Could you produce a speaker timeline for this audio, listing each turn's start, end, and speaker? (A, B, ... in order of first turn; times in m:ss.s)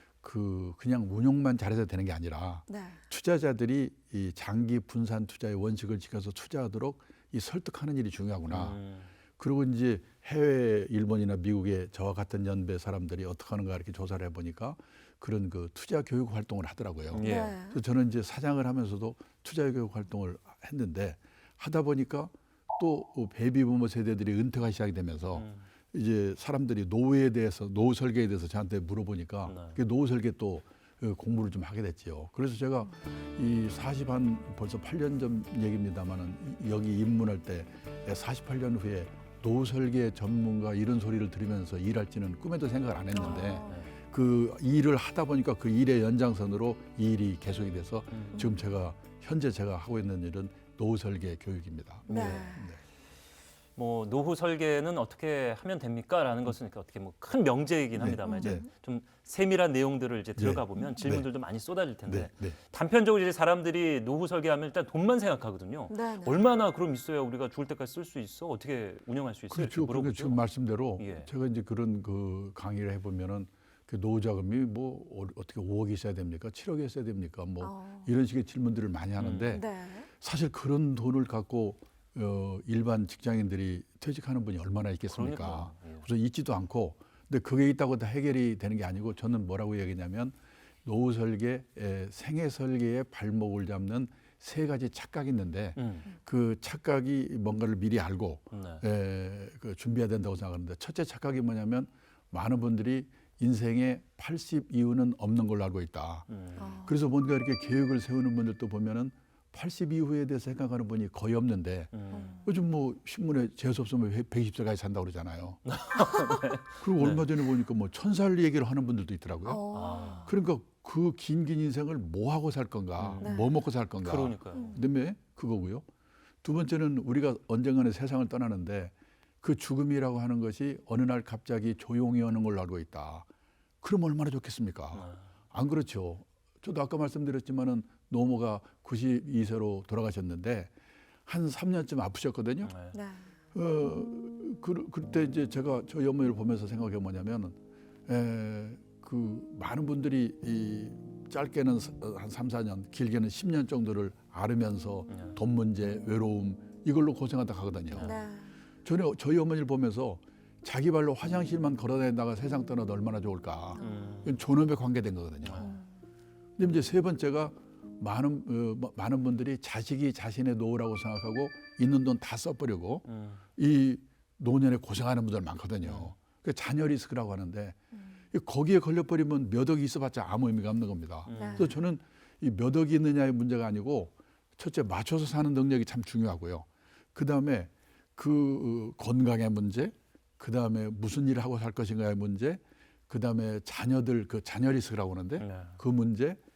0:00.2-0:08.8 A
0:02.7-0:03.0 B
0:08.5-0:09.1 C
0:09.4-0:52.8 A
0:17.1-0:17.6 C
0:17.2-0:17.8 B
0:25.3-0:25.7 C
0:29.5-0:29.8 C
0:43.1-0:43.8 B
0:43.2-0:43.9 C
0:48.1-0:48.5 C
0:48.4-0:48.6 B
0:52.1-0:52.5 C
0:52.1-0:52.7 B
0:53.8-1:10.4 C
0:58.0-0:58.6 A
0:58.2-0:58.7 B
1:00.4-1:01.3 A
1:02.0-1:02.6 A
1:05.9-1:06.4 B
1:09.5-1:46.3 A
1:11.0-1:11.3 C
1:17.6-1:18.1 B
1:19.2-1:19.5 C
1:19.5-1:20.1 B
1:25.0-1:26.1 C
1:35.8-1:36.1 C
1:38.5-1:38.8 C
1:46.3-1:46.7 C
1:46.6-1:47.0 B
1:46.8-1:55.6 A
1:51.9-1:52.4 C
1:52.1-1:52.5 B
1:55.6-1:57.4 C
1:56.8-2:05.8 A
1:59.4-2:00.3 B
1:59.7-2:00.3 C
2:03.0-2:04.7 C
2:03.2-2:03.6 B
2:04.5-2:04.8 B
2:06.4-2:13.3 A
2:13.8-2:20.7 A
2:14.9-2:15.2 C
2:21.2-2:22.7 A
2:22.6-2:23.0 C
2:22.9-2:23.3 B
2:23.5-2:38.1 A
2:35.1-2:35.4 C
2:37.9-2:38.1 C
2:38.0-2:38.6 B
2:38.8-2:45.8 A
2:43.8-2:44.1 B
2:43.8-2:44.4 C
2:45.4-2:45.7 C
2:45.6-2:46.0 B
2:46.6-2:57.8 A
2:53.0-2:53.4 C
2:55.8-2:56.1 C
2:58.3-3:16.4 A
3:01.2-3:01.8 C
3:01.3-3:01.8 B
3:15.4-3:15.8 C